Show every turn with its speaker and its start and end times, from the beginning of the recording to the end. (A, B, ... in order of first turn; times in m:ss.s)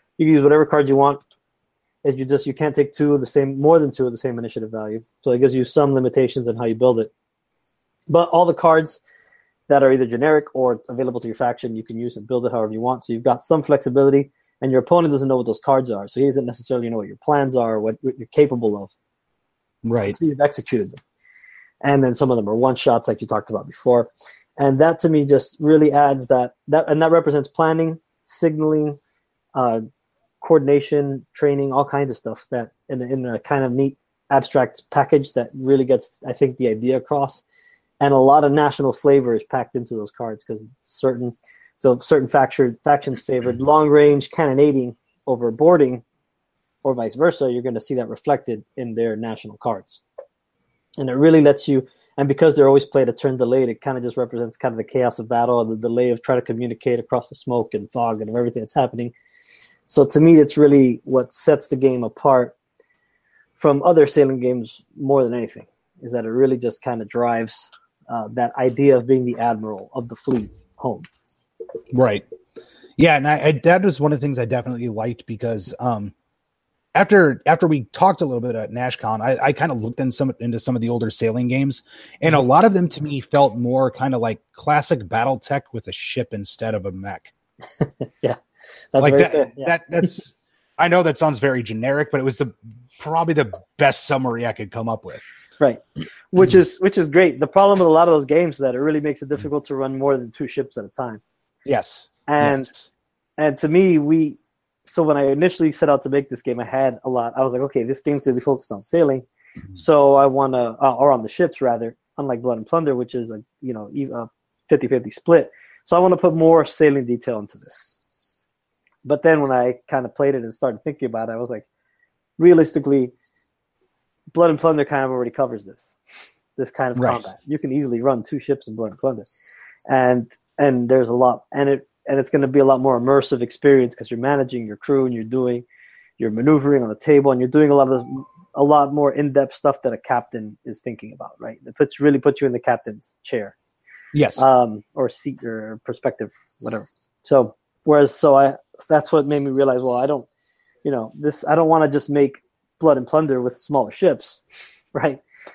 0:00.2-0:01.2 A
0:02.0-0:07.1 A
0:08.1-0:09.0 A
0:09.7-0:18.9 A
0:19.8-0:20.2 B
0:20.0-0:21.0 A
0:21.8-0:29.0 A
0:29.6-0:29.8 A
0:30.4-0:37.4 A
0:38.0-0:46.0 A
0:46.8-0:50.0 A
0:51.0-0:59.1 A
0:59.9-1:02.6 A
1:03.6-1:11.1 A
1:11.9-1:12.2 B
1:13.0-1:16.1 B
1:17.0-1:27.3 B
1:27.8-1:28.4 A
1:28.9-1:29.7 A
1:29.0-1:35.2 B
1:35.6-1:41.2 A
1:41.7-1:42.9 B
1:42.3-1:42.7 A
1:43.4-1:49.2 A
1:49.8-1:57.9 A
1:59.0-2:01.7 A
2:02.4-2:03.1 A
2:04.3-2:05.9 A
2:06.6-2:09.3 A
2:07.0-2:07.2 B
2:09.9-2:15.6 A
2:16.2-2:23.6 A
2:24.1-2:24.4 B
2:24.4-2:30.3 A
2:30.8-2:35.2 A